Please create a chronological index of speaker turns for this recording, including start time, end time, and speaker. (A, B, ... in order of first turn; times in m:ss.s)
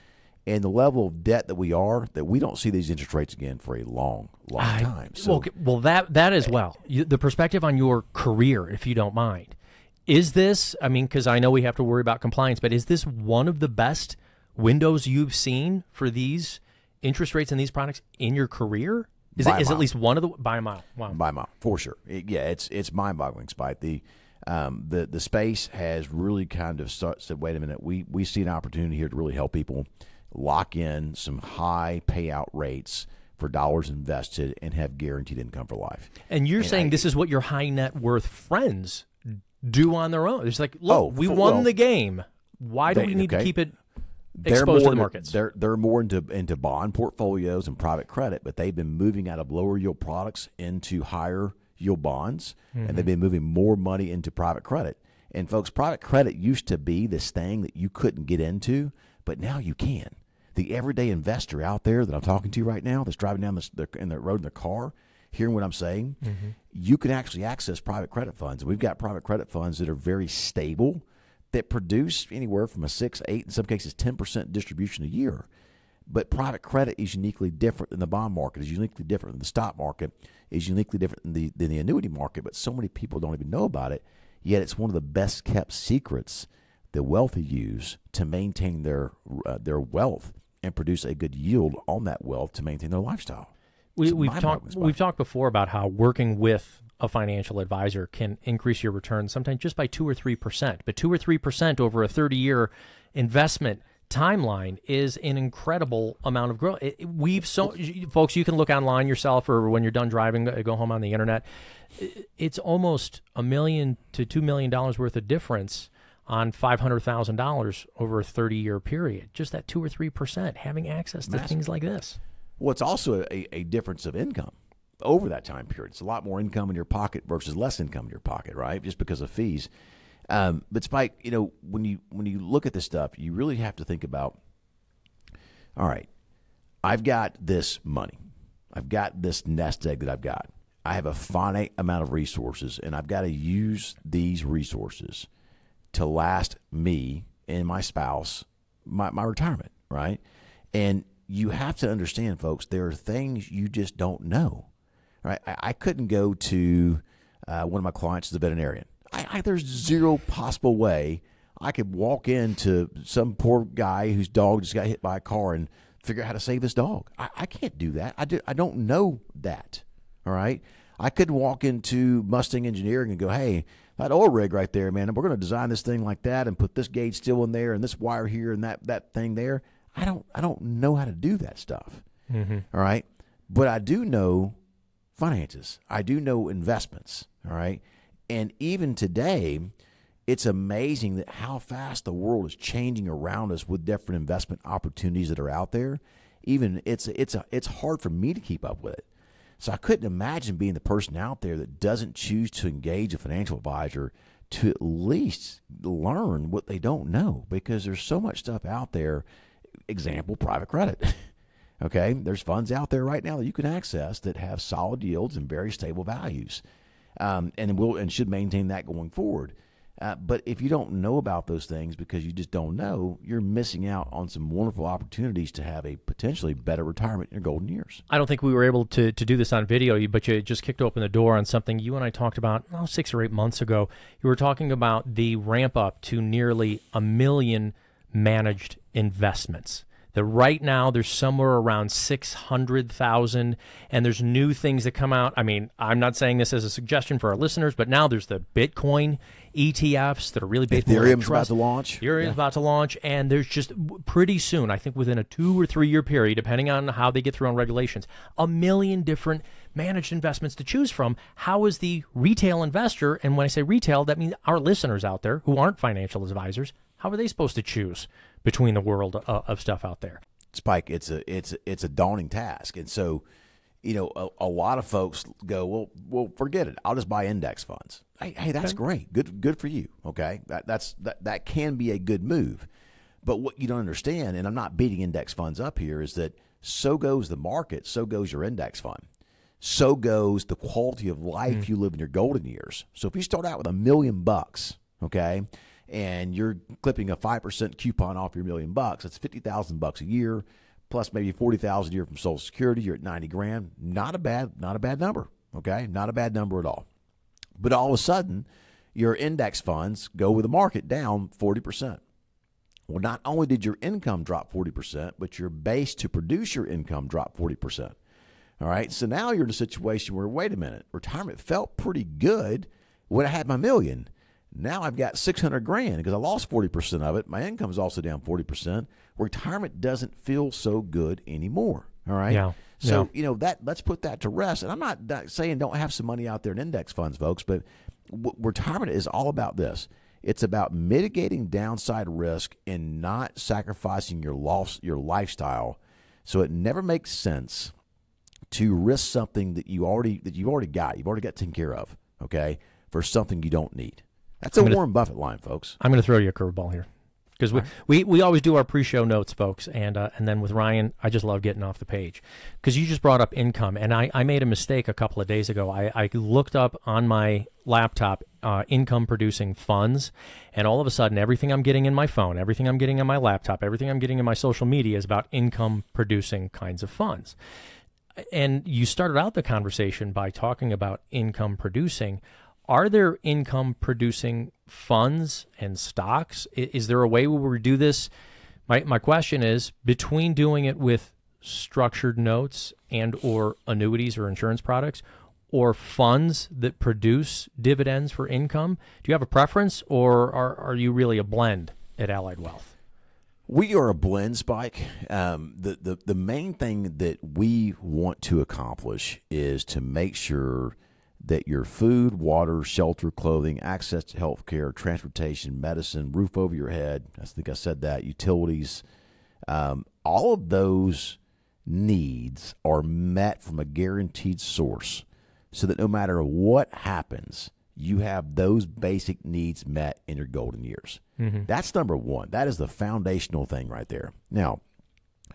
0:00.5-0:05.5 A
0:04.6-0:09.5 B
0:10.1-0:21.2 B
0:19.4-0:19.9 A
0:21.1-0:37.1 A
0:36.3-0:43.7 B
0:40.9-0:41.7 A
0:42.9-0:43.5 A
0:44.4-1:15.5 A
0:44.4-0:45.4 B
0:52.7-0:53.1 B
1:06.2-1:06.5 B
1:16.1-1:33.5 A
1:34.0-1:51.4 B
1:34.0-1:35.0 A
1:52.0-2:02.2 B
2:01.3-2:01.6 A
2:02.6-2:09.7 A
2:10.3-2:14.4 A
2:15.8-2:16.1 A
2:16.8-2:18.2 A
2:18.7-2:25.3 A
2:25.9-2:30.2 A
2:30.7-2:34.7 A
2:35.2-3:02.0 A
3:02.3-3:02.6 B
3:02.7-3:04.6 A
3:05.2-3:09.7 A
3:10.3-3:19.0 A
3:19.6-3:29.2 A
3:29.9-3:31.2 A
3:31.8-3:36.6 A
3:37.2-3:48.0 A
3:48.1-4:30.2 B
4:10.7-4:12.4 A
4:30.5-4:33.2 A
4:33.8-4:42.7 A
4:43.2-4:49.0 A
4:49.6-5:06.8 A
5:07.6-5:12.0 A
5:12.9-5:18.0 A
5:18.6-5:47.7 A
5:32.3-5:33.1 B
5:48.5-5:55.8 A
5:54.6-5:54.8 B
5:55.8-5:56.8 B
5:57.4-6:17.4 B
6:18.3-6:28.1 B
6:28.7-6:42.7 B
6:43.5-6:58.8 A
6:59.5-7:14.6 A
7:11.2-7:11.5 B